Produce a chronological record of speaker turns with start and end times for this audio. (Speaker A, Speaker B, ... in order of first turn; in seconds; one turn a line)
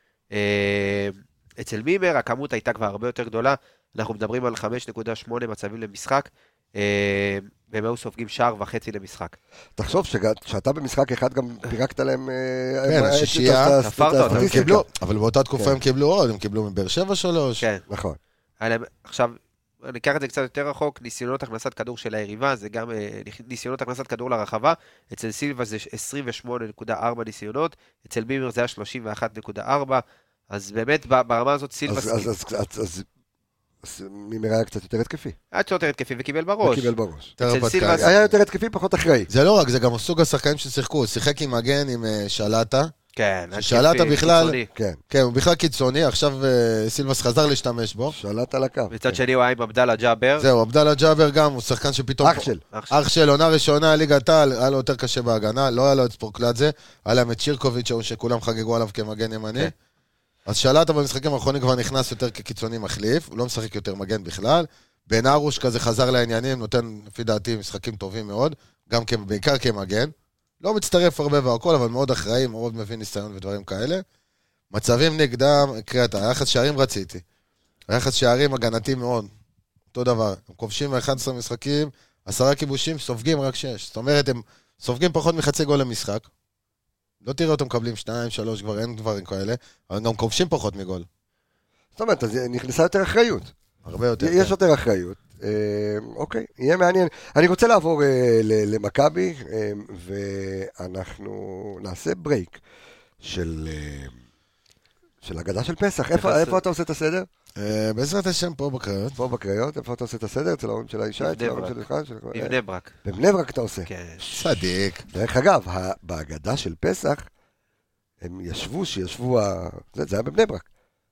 Speaker A: 0.3-9.3
Speaker B: 9.8-14.8
Speaker C: 12.8-17.6
Speaker A: 13.8-14.8
Speaker B: 17.9-18.2
Speaker A: 18.6-32.3
Speaker B: 31.9-33.1
Speaker B: 33.8-35.4
Speaker A: 35.5-38.1
Speaker B: 36.6-37.3
Speaker C: 37.4-38.1
Speaker B: 37.9-39.3
Speaker C: 39.3-42.9
Speaker A: 43.1-44.7
Speaker C: 43.5-44.6
Speaker B: 44.7-45.0
Speaker C: 45.1-48.1
Speaker B: 48.1-49.2
Speaker A: 48.9-50.5
Speaker C: 50.4-59.7
Speaker B: 52.2-52.6
Speaker A: 52.7-53.0
Speaker C: 60.5-74.0
Speaker C: 74.7-77.2
Speaker C: 77.9-79.3
Speaker C: 79.9-86.3
Speaker C: 87.2-91.0
Speaker B: 92.0-93.5
Speaker C: 93.8-94.5
Speaker B: 94.2-102.6
Speaker B: 103.2-104.1
Speaker B: 105.2-107.3
Speaker A: 106.1-106.6
Speaker C: 107.6-109.2
Speaker B: 109.2-113.9
Speaker A: 111.2-111.8
Speaker A: 112.3-113.0
Speaker A: 113.9-114.3
Speaker C: 114.2-115.0
Speaker B: 115.1-117.3
Speaker B: 118.2-120.6